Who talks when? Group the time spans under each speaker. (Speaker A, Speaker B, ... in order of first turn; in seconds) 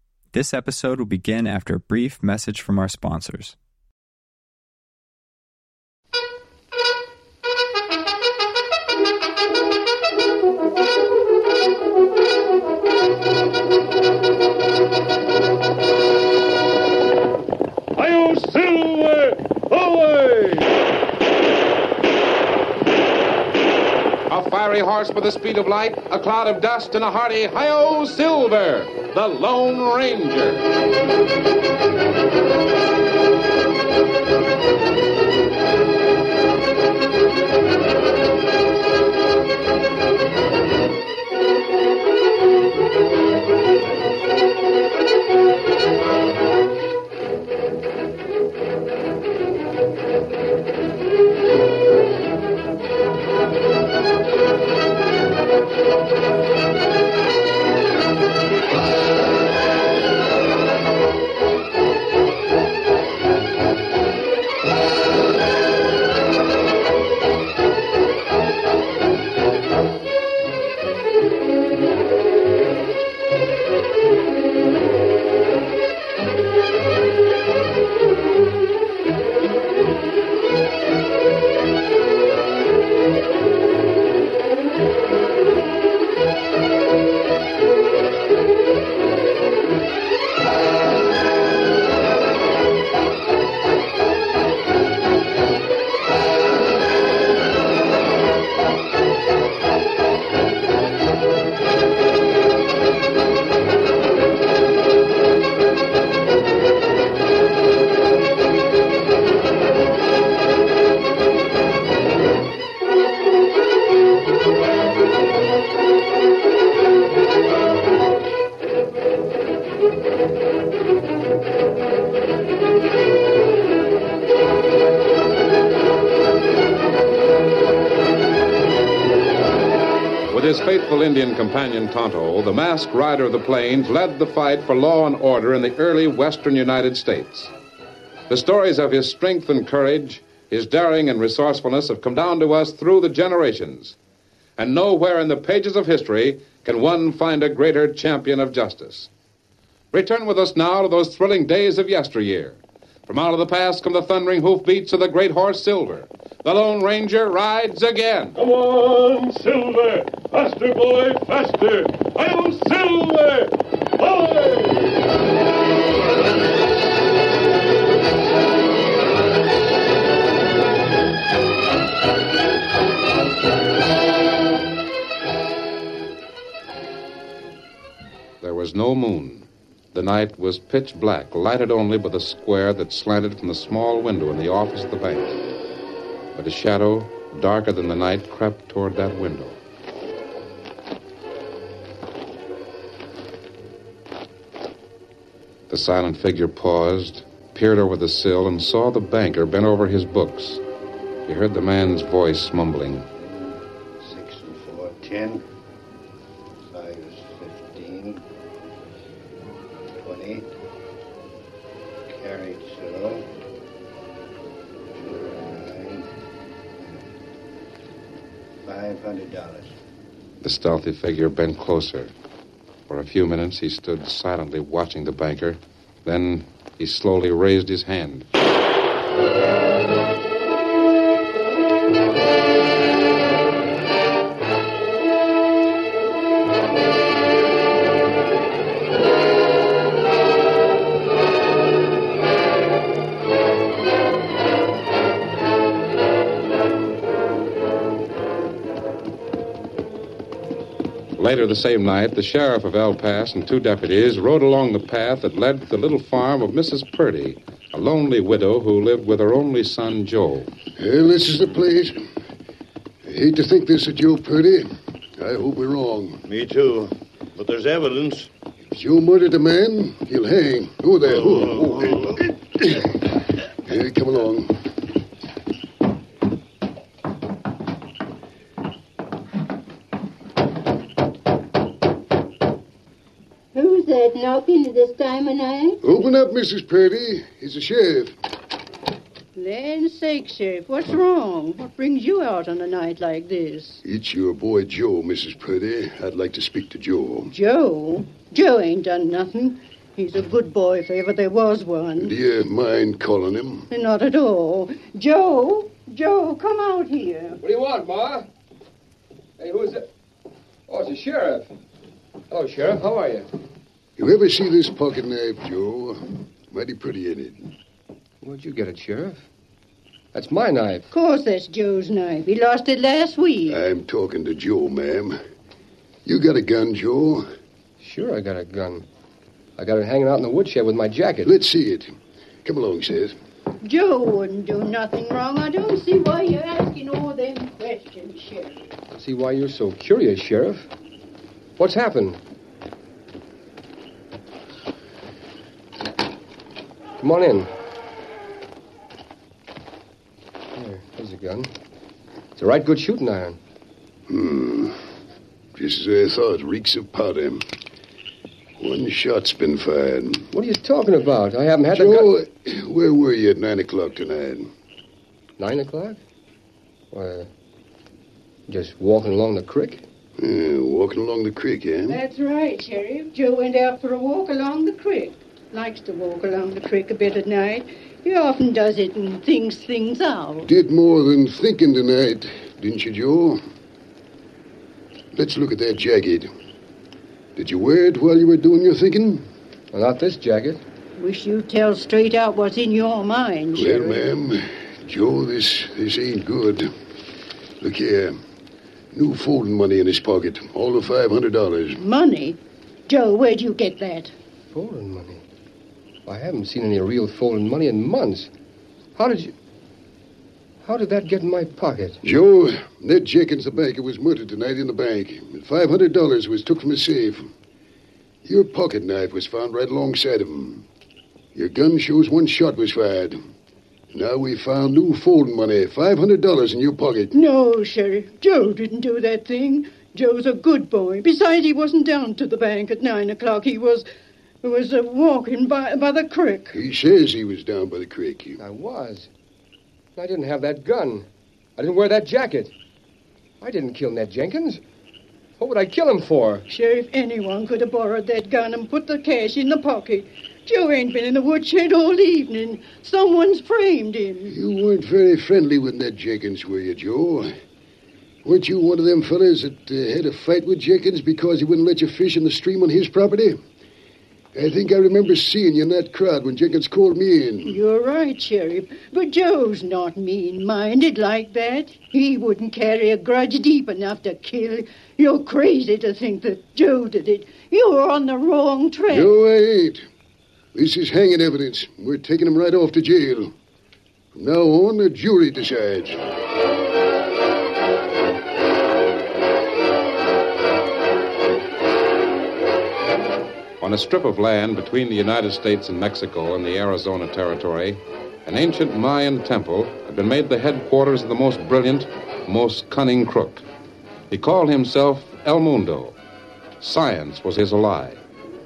Speaker A: 0.3-3.5
Speaker B: 18.0-20.6, 158.4-163.5, 164.0-164.7
Speaker C: 24.3-30.6, 130.3-137.5, 138.3-143.9, 144.6-149.1, 149.9-158.4, 178.4-185.4, 186.3-189.6, 195.7-200.6, 201.3-203.1, 220.4-222.1, 222.9-228.3, 251.2-260.5, 493.6-503.4, 504.1-505.9, 506.6-508.0
Speaker D: 203.1-205.4, 206.7-208.2, 210.0-210.5, 212.1-213.2, 214.9-216.1, 216.8-217.0, 218.6-219.7
Speaker E: 260.8-262.0, 263.1-264.7, 265.2-266.2, 268.7-272.9, 273.6-274.5, 285.8-288.1, 293.8-297.3, 302.0-303.7, 314.0-317.4, 323.5-325.2, 326.1-327.2, 331.2-331.9, 332.4-333.1, 354.1-354.8, 355.5-357.4, 358.6-360.3, 361.7-364.5, 370.2-372.0, 380.4-383.4, 385.1-386.3, 387.4-389.2, 393.5-396.7, 397.6-398.1, 398.9-401.8, 412.0-417.3, 418.2-420.6, 421.3-423.2, 423.9-427.1, 436.5-438.4, 454.3-457.3, 458.2-463.4, 464.3-467.6, 478.9-479.8, 480.5-483.3, 484.1-486.0
Speaker F: 266.2-268.3, 271.1-272.0
Speaker G: 283.5-285.8, 289.3-293.8, 297.3-302.1, 303.7-307.4, 320.9-323.6, 333.6-338.6, 371.9-380.5, 391.0-394.0, 401.8-404.1, 427.1-433.9, 434.4-436.6, 446.5-454.4, 467.4-479.2
Speaker H: 307.4-308.2, 309.4-309.9, 310.7-311.5, 312.3-313.3, 318.2-319.2, 320.1-320.9, 327.8-328.9, 329.6-331.3, 338.9-340.7, 341.6-342.2, 347.0-347.5, 350.5-351.5, 352.4-353.4, 360.3-362.1, 365.4-366.0, 366.9-367.3, 368.5-369.8, 389.7-390.6, 404.5-405.2, 406.1-408.3, 408.9-409.3, 410.6-412.0, 438.4-439.1, 439.9-441.1, 441.6-442.5, 443.4-444.6, 445.4-446.4